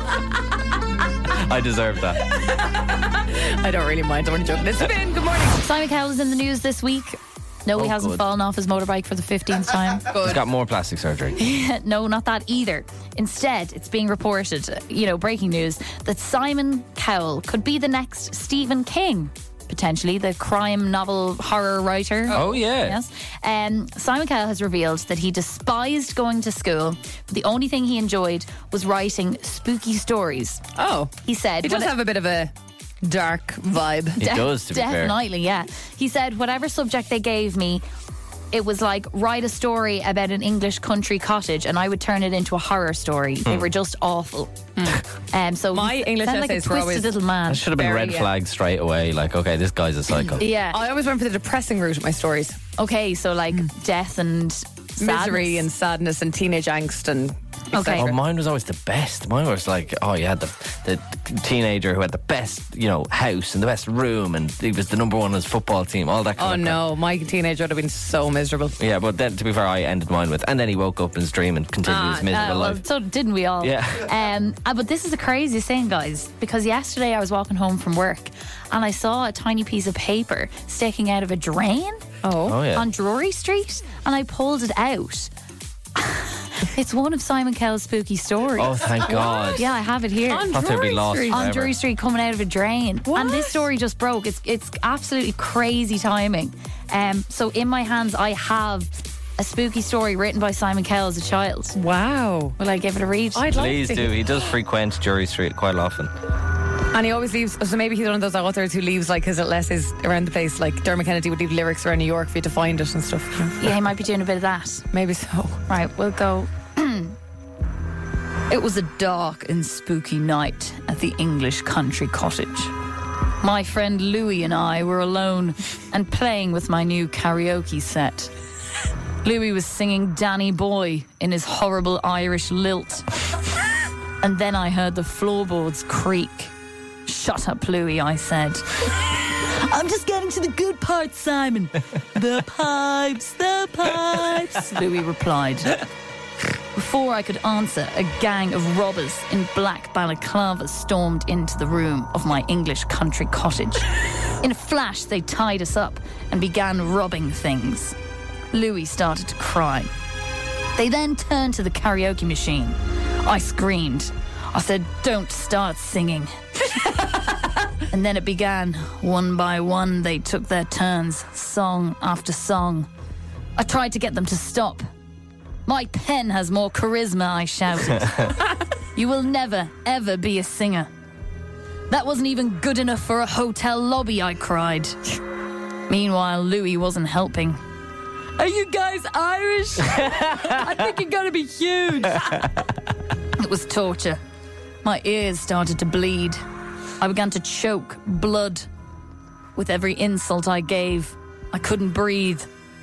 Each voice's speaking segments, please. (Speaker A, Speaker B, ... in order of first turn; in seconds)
Speaker A: 1.3-2.2, 7.8-8.2, 10.2-11.4, 22.3-23.0, 34.2-35.2, 43.5-43.7, 47.5-50.4, 58.0-66.8, 68.8-72.8, 73.6-74.1, 82.5-82.9, 88.6-89.7, 90.5-91.7, 103.5-106.1
Speaker B: 2.4-5.6, 10.1-10.4, 22.3-22.6, 30.8-32.5, 33.0-34.2, 45.7-47.1, 47.8-48.3, 50.7-52.6, 55.0-58.2, 66.4-68.8, 71.9-72.7, 82.2-82.6, 89.0-89.6, 90.3-91.5, 93.1-93.6, 101.8-102.6, 103.3-104.1, 106.9-113.6, 114.9-115.6
Speaker C: 5.6-10.0, 11.4-30.6, 31.2-31.9, 34.2-37.8, 38.5-44.7, 45.3-47.7, 50.4-50.8, 52.8-55.7, 57.7-58.1, 72.3-82.0, 82.7-85.3, 86.0-88.8, 89.5-90.5, 91.3-101.8, 102.6-103.5, 113.6-114.8, 115.7-117.2, 118.5-122.7, 123.4-128.3, 129.2-133.1, 134.2-136.5, 137.1-145.8, 146.8-153.9, 154.4-157.9, 158.5-159.9, 160.8-167.0, 167.9-172.9, 173.6-174.9, 175.7-178.4, 178.9-180.9, 181.9-185.1, 185.9-187.6, 188.4-192.5, 193.4-194.2, 194.8-196.4, 197.0-198.7, 199.6-202.5